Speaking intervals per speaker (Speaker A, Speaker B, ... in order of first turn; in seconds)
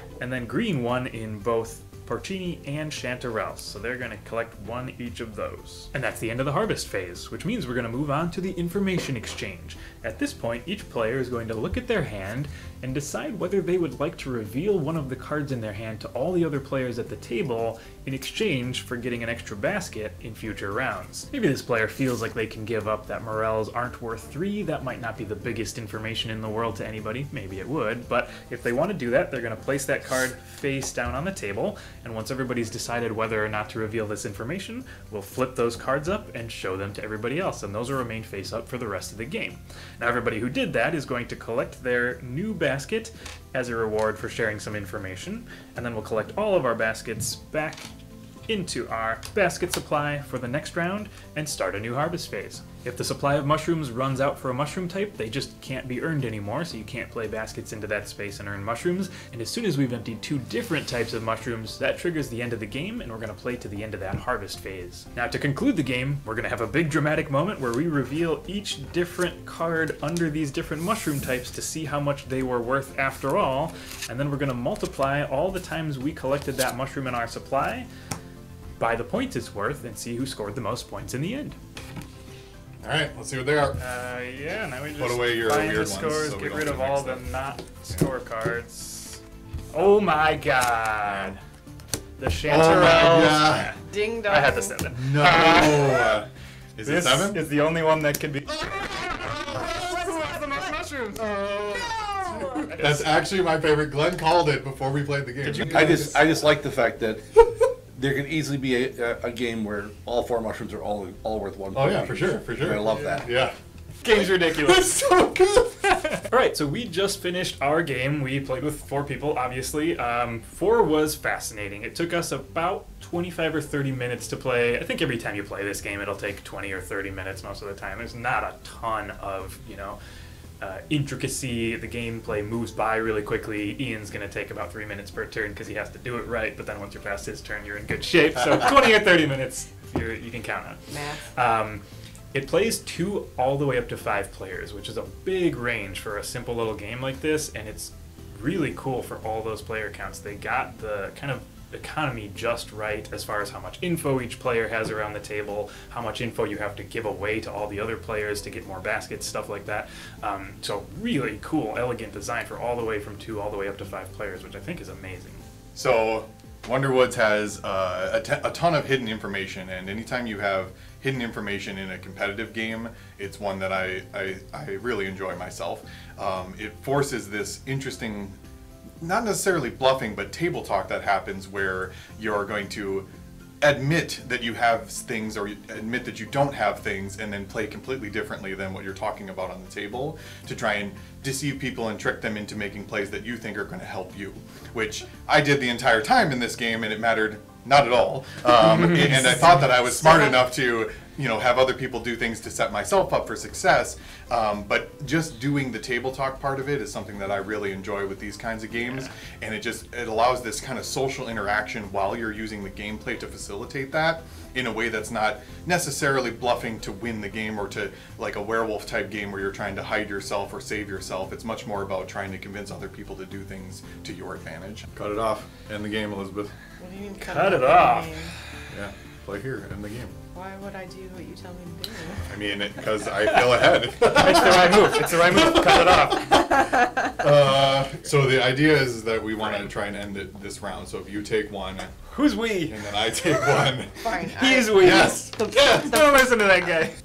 Speaker A: 0.2-47.9, 48.5-77.9, 78.8-81.6, 83.8-89.2, 89.7-91.4, 92.2-96.1, 96.8-103.0, 105.4-106.1, 114.0-115.0, 115.8-130.0, 130.6-141.8, 142.3-165.4, 208.8-209.1, 227.2-228.3, 234.0-236.5, 242.1-242.8, 244.3-246.9
Speaker B: 82.8-83.8, 85.0-87.3, 91.0-91.3, 92.5-93.7, 94.9-97.4, 102.7-106.2, 111.7-113.5, 114.6-115.8, 165.7-178.4, 179.0-183.1, 183.6-226.5, 228.7-230.1, 232.3-236.0, 237.1-241.9, 242.7-244.0, 244.7-245.3
Speaker C: 93.8-94.8, 140.9-141.3, 200.1-200.4, 226.8-228.3, 230.3-232.3, 244.0-246.0
Speaker D: 105.7-107.2, 107.9-113.3